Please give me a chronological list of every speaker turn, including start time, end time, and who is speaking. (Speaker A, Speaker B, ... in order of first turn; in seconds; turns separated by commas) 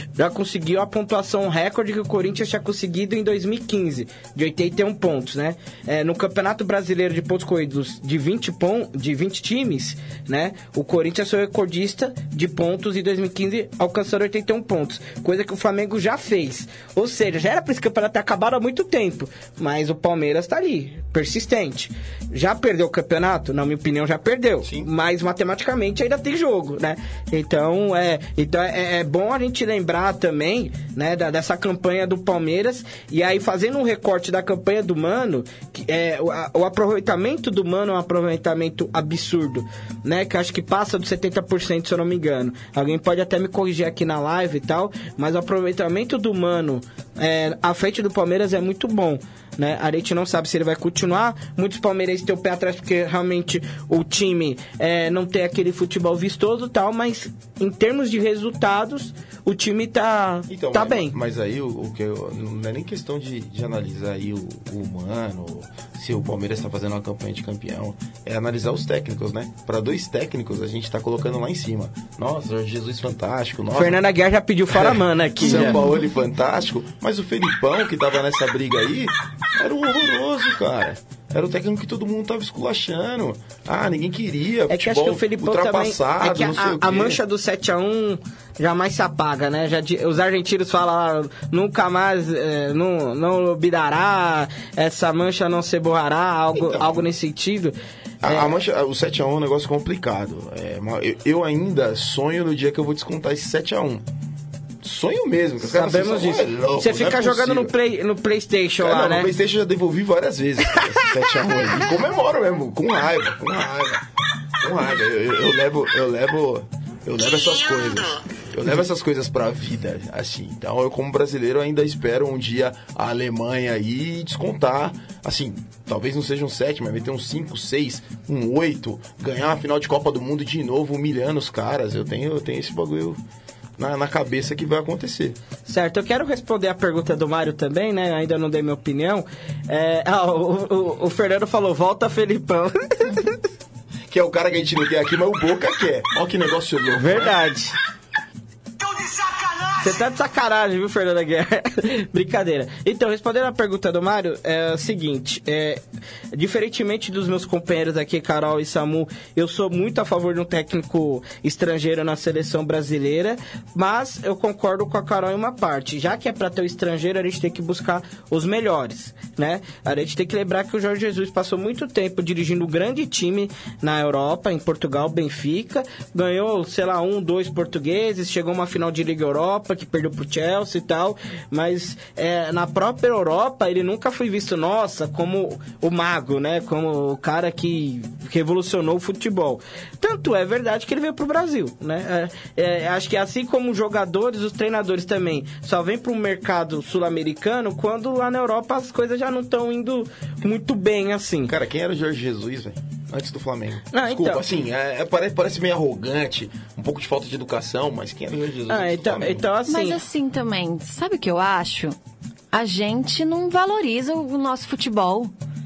Speaker A: 0.2-61.1, Speaker B: 24.6-24.9, Speaker B: 60.5-74.0, Speaker A: 73.8-75.8, Speaker B: 74.7-87.2, Speaker C: 75.4-76.0, Speaker A: 84.7-98.6, Speaker B: 96.5-97.0, Speaker B: 98.2-104.0, Speaker B: 104.8-107.7, Speaker A: 105.6-109.3, Speaker B: 108.8-114.0, Speaker A: 110.7-111.1, Speaker B: 114.6-133.2, Speaker B: 133.8-135.4, Speaker A: 135.7-143.4, Speaker B: 144.1-147.4, Speaker A: 147.0-147.8, Speaker A: 149.7-201.5, Speaker B: 201.4-209.5, Speaker A: 203.9-204.4, Speaker A: 208.7-210.0, Speaker C: 209.7-212.0, Speaker C: 212.5-215.3